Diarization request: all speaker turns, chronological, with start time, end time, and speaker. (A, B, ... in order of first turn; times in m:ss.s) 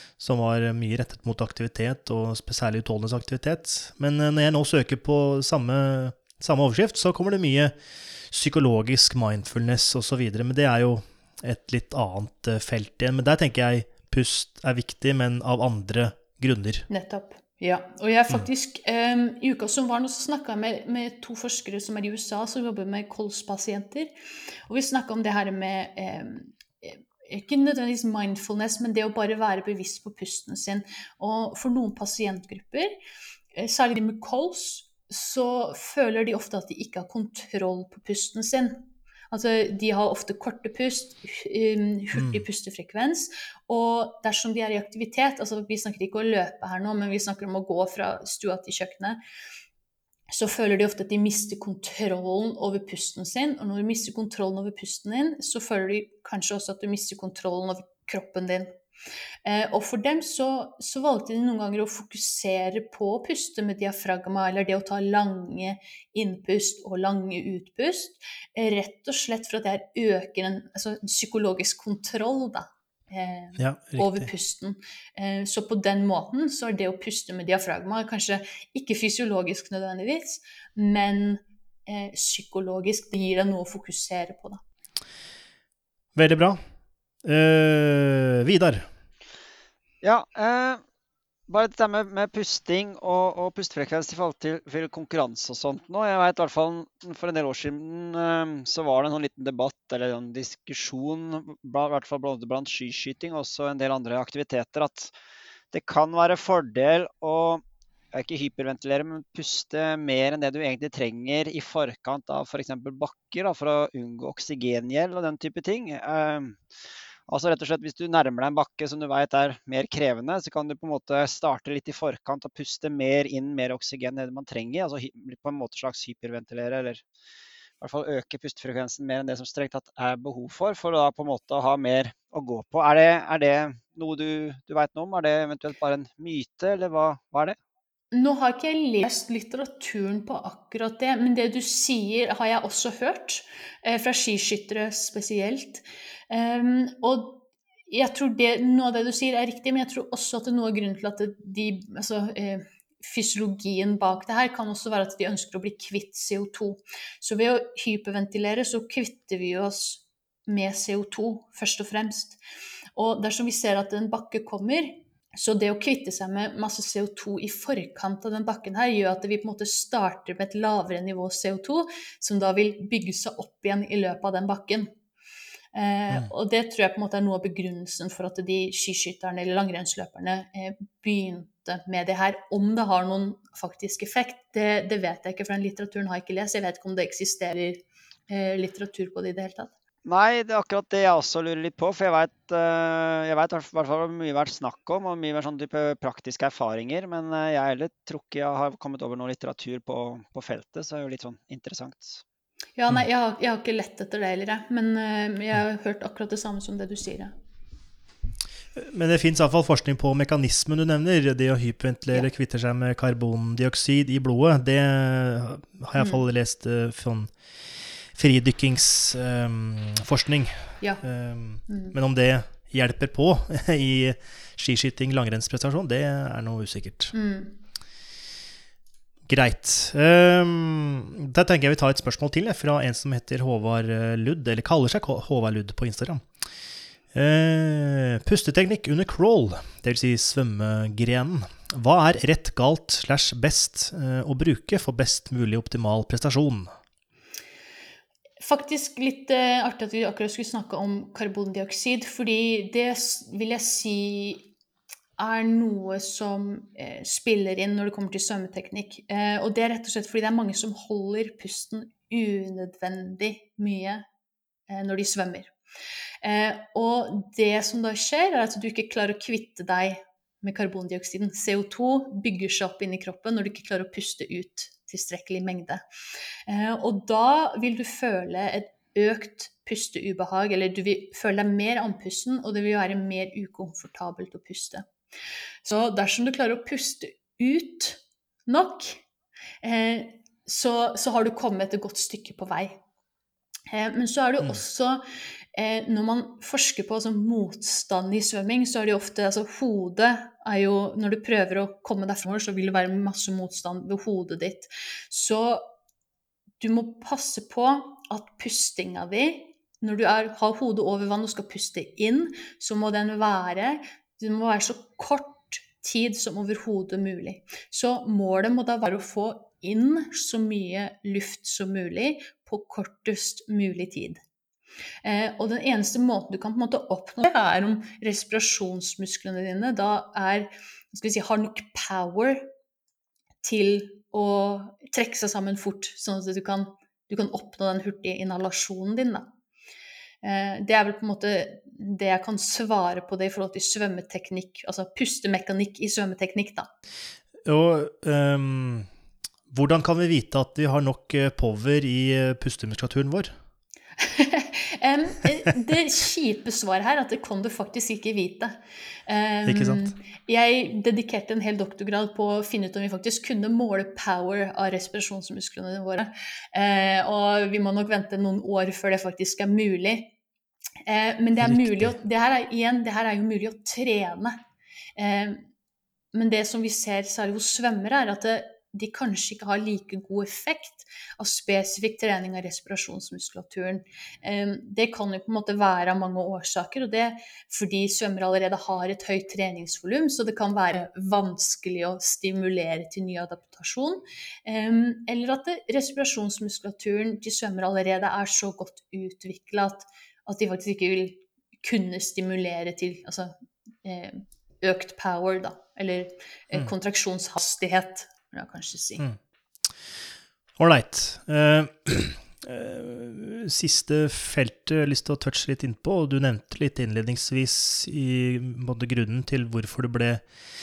0:00.2-0:07.7 A
0:08.3-0:16.9 A
0:16.9-0:24.1 B
0:24.7-0:32.9 B
0:33.5-0:49.2 B
0:42.2-0:42.4 A
0:50.3-0:58.7 B
0:59.4-1:24.6 B
1:13.6-1:14.3 A
1:26.2-1:26.6 A
1:27.2-1:28.9 A
1:30.0-1:30.8 C
1:31.5-1:45.1 C
1:45.7-1:47.6 C
1:48.1-1:56.6 C
1:57.3-2:07.0 C
2:07.8-2:17.6 C
2:18.1-2:42.4 B
2:43.0-2:54.9 B
2:55.7-3:09.7 B
3:10.0-3:22.2 C
3:22.8-3:27.3 B
3:28.8-3:37.3 A
3:36.0-3:36.2 B
3:38.1-3:47.1 A
3:41.7-3:41.9 B
3:47.1-3:47.6 B
3:49.3-3:56.3 A
3:57.1-4:06.7 A
4:08.4-4:14.5 B
4:15.2-4:24.0 B
4:24.7-4:25.5 B
4:26.2-4:35.8 B
4:36.5-4:44.9 B
4:45.6-4:49.0 B
4:49.6-4:52.8 B
4:53.7-4:55.0 B
4:55.5-5:05.6 B
5:06.6-5:24.2 B
5:25.0-5:32.5 B
5:33.4-5:39.3 B
5:40.2-5:46.7 B
5:47.5-5:48.9 A
5:49.5-5:53.3 A
5:54.0-6:10.1 B
5:59.5-5:59.9 A
6:10.8-6:14.4 B
6:11.4-6:12.0 A
6:15.0-6:15.5 B
6:16.1-6:49.0 B
6:50.6-7:00.2 A